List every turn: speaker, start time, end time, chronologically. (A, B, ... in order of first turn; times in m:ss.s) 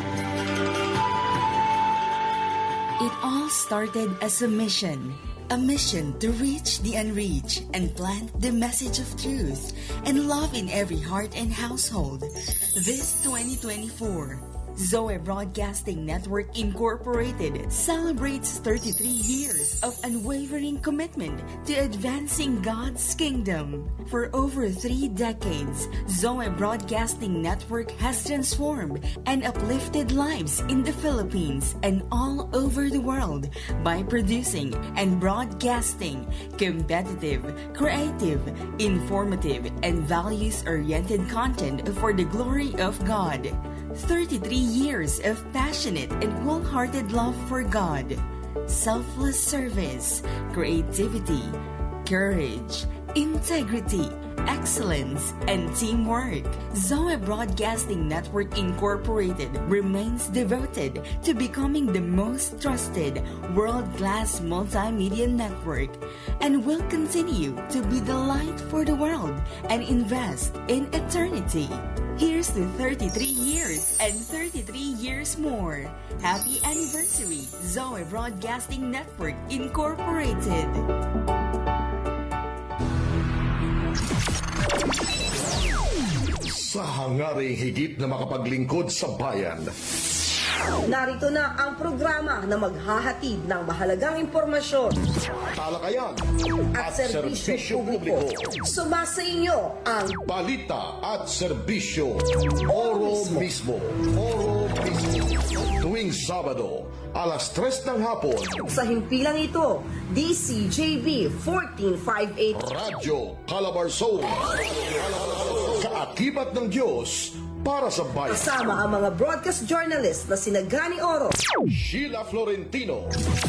0:03.0-1:20.9 A
1:26.5-1:29.7 B
1:30.8-1:35.0 C
1:35.5-1:36.2 B
1:36.7-1:40.2 C
1:36.8-1:38.6 B
1:40.3-1:48.6 B
1:42.7-1:43.5 C
1:48.6-1:52.6 C
1:52.5-1:58.5 B
1:58.3-2:01.3 C
2:01.7-2:03.1 B